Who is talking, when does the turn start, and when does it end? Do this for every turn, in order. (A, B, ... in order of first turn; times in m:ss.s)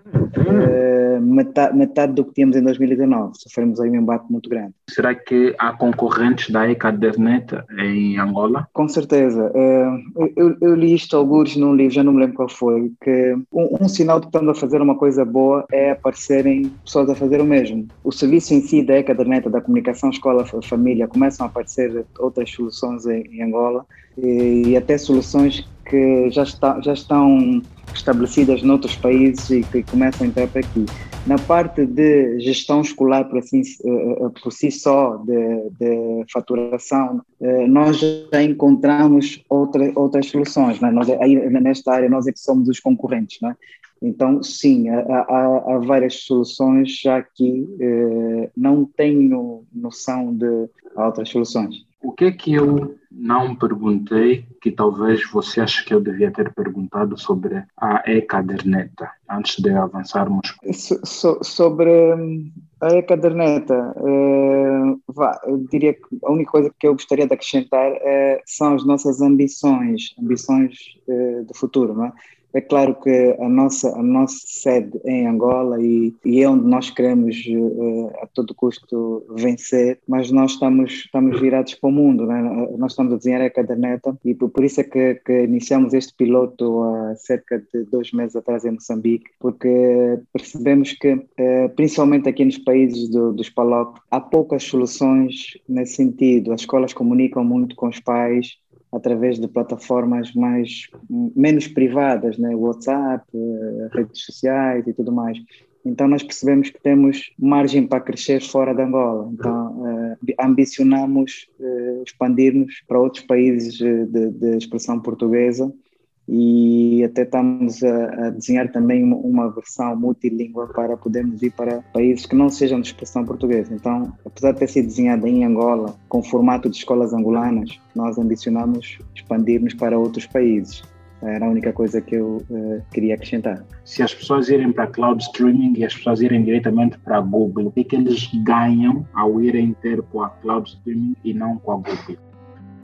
0:00.4-0:04.8 A
0:04.9-0:08.7 B
0:08.7-0:51.8 A
0:52.0-1:00.6 B
1:00.6-1:55.7 A
1:56.3-2:13.7 A
2:13.8-2:22.2 B